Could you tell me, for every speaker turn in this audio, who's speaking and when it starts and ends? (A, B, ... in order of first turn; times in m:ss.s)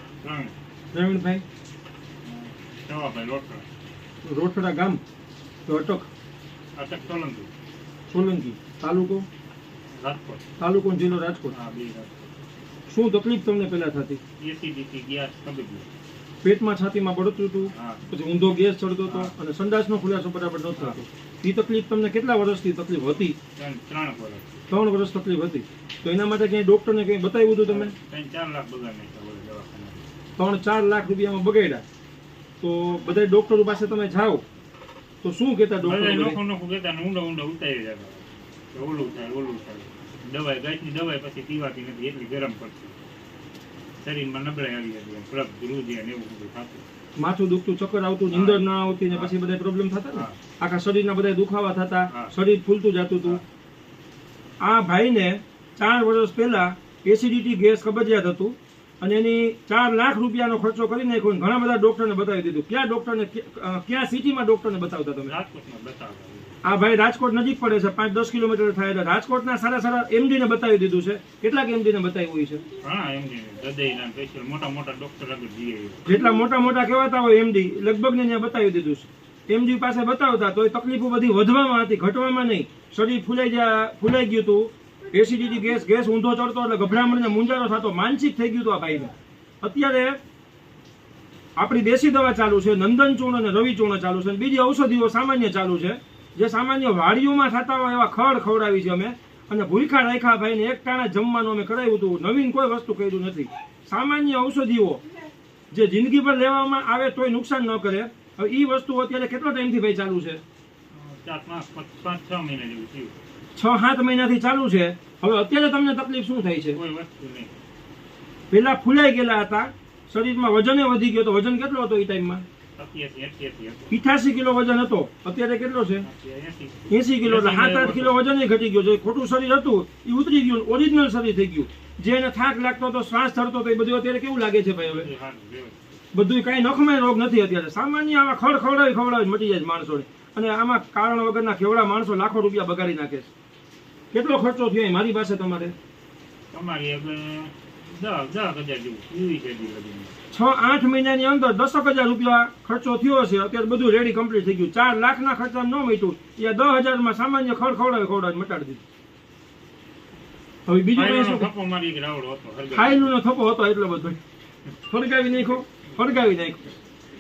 0:00.2-0:00.5 A
0:00.9-0:01.4 B
0:02.2-0:03.7 A
0:04.2-0:05.0 B
0:05.6-0:06.1 B
0:06.8-0:07.5 A
0:08.1-0:09.2 B
0:09.9-0:10.4 A
0:10.6-0:11.5 B
0:11.5-0:12.3 A
0:12.9-0:14.2 B
0:14.4-0:15.9 A
0:16.4-0:23.4 B
0:17.7-0:18.0 A
0:19.1-0:19.3 A
0:23.6-0:24.6 A
0:24.7-0:27.9 B
0:27.6-0:30.0 A
0:30.4-0:31.8 B
0:32.6-0:34.4 B
0:35.2-0:36.4 B
0:35.8-0:43.0 A
0:44.0-0:46.8 A
0:47.2-0:53.4 B
0:48.3-0:49.3 A
0:50.1-0:50.4 A
0:54.6-1:05.3 B
1:05.2-1:06.6 A
1:06.6-1:12.6 B
1:12.8-1:16.0 A
1:16.0-1:30.2 B
1:31.6-1:45.0 B
1:45.7-1:50.4 B
1:50.9-1:53.2 A
1:53.6-1:56.8 B
1:56.7-1:57.5 A
1:58.5-2:02.4 B
2:02.8-2:03.9 A
2:03.9-2:06.0 B
2:06.0-2:08.2 A
2:06.9-2:15.1 B
2:14.8-2:15.8 A
2:16.1-2:23.3 B
2:24.1-2:25.7 B
2:26.5-2:30.1 A
2:30.3-2:38.8 B
2:40.7-2:41.5 B
2:40.9-2:43.1 A
2:42.7-2:44.2 B
2:44.9-2:46.7 B